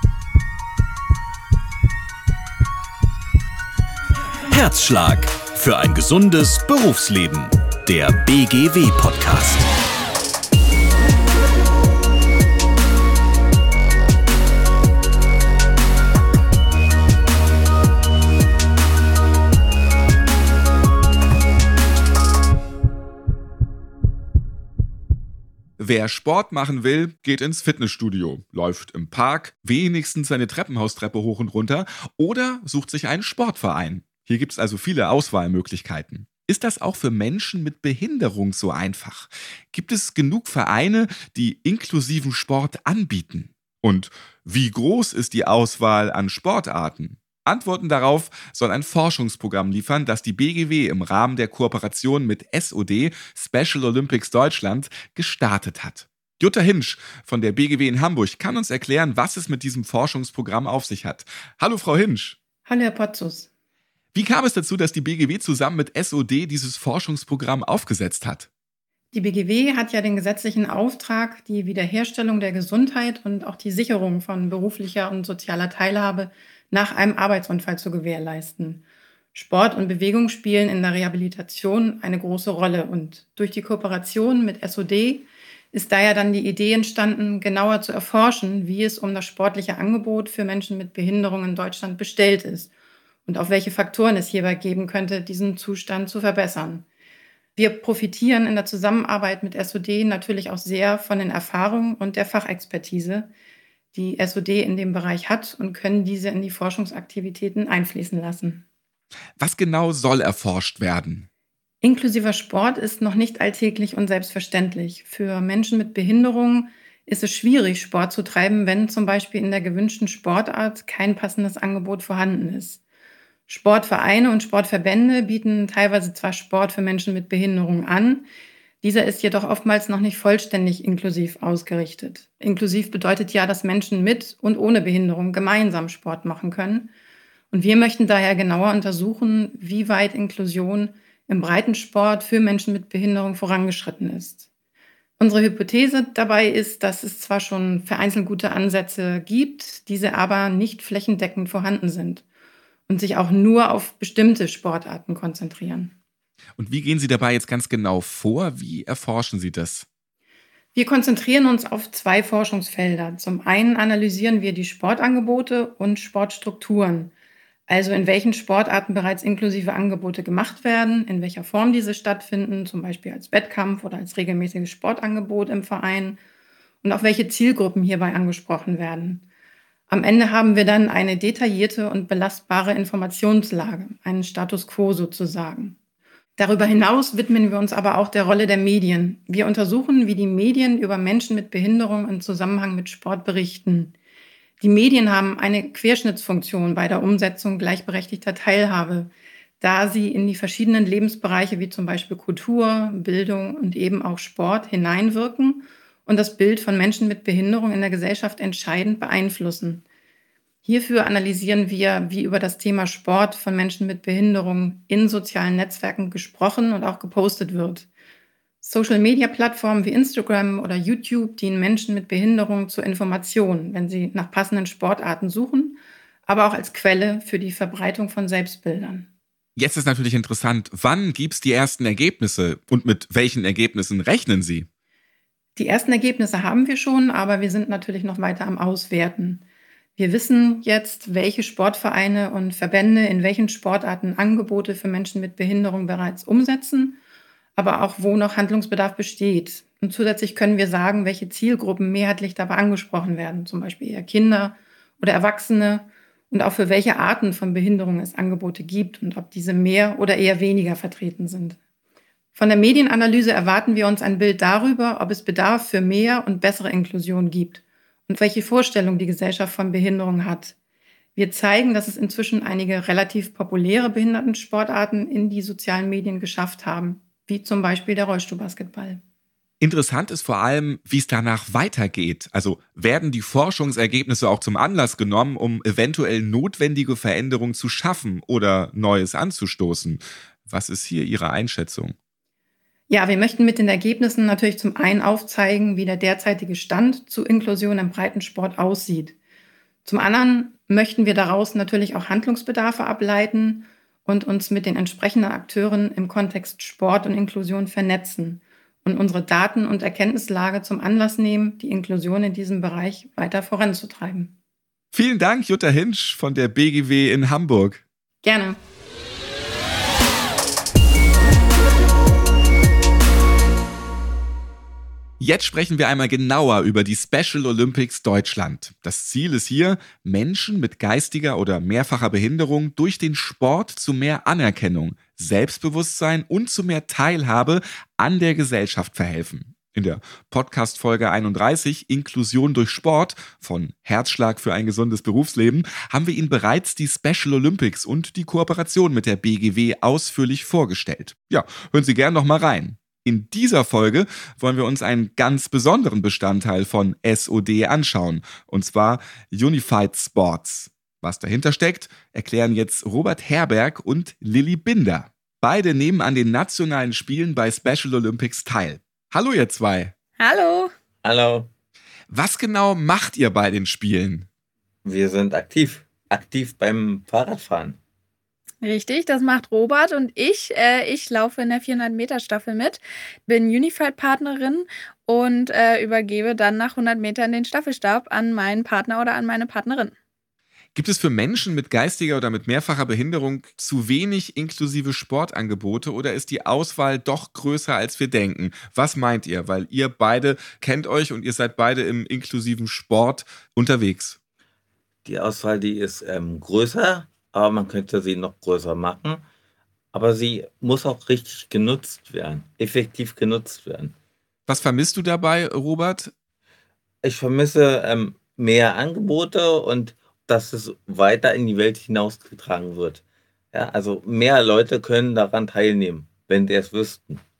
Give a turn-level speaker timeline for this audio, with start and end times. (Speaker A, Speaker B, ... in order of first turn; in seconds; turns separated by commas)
Speaker A: 4.5-9.7, Speaker B: 25.8-62.4, Speaker C: 62.7-63.5, Speaker B: 64.1-68.5, Speaker C: 69.1-92.7, Speaker C: 93.3-96.9, Speaker C: 97.6-103.3, Speaker C: 103.9-108.7, Speaker B: 109.4-111.3, Speaker C: 111.8-122.8, Speaker C: 123.5-128.3, Speaker C: 128.8-136.9, Speaker C: 137.5-144.5, Speaker C: 145.2-152.2, Speaker C: 152.9-156.0, Speaker B: 156.6-159.9, Speaker C: 160.8-167.1, Speaker C: 167.7-176.2, Speaker C: 176.8-179.3, Speaker C: 179.9-185.8, Speaker C: 186.4-193.9, Speaker C: 194.6-209.8, Speaker C: 210.6-217.9, Speaker C: 218.6-229.1, Speaker B: 229.6-234.7, Speaker C: 235.6-239.4, Speaker C: 240.0-247.0, Speaker C: 247.6-261.6, Speaker C: 262.3-270.6, Speaker C: 271.2-279.0, Speaker B: 279.6-291.9, Speaker C: 292.9-299.2, Speaker C: 299.9-314.4, Speaker B: 314.9-317.8, Speaker C: 318.2-318.6, Speaker B: 325.2-369.9, Speaker D: 370.2-370.7, Speaker E: 371.0-371.5, Speaker B: 372.1-374.3, Speaker E: 374.8-377.8, Speaker D: 378.6-389.9, Speaker B: 390.8-404.2, Speaker E: 405.1-409.2, Speaker E: 409.9-413.9, Speaker B: 414.5-416.1, Speaker E: 417.0-423.0, Speaker E: 423.5-427.2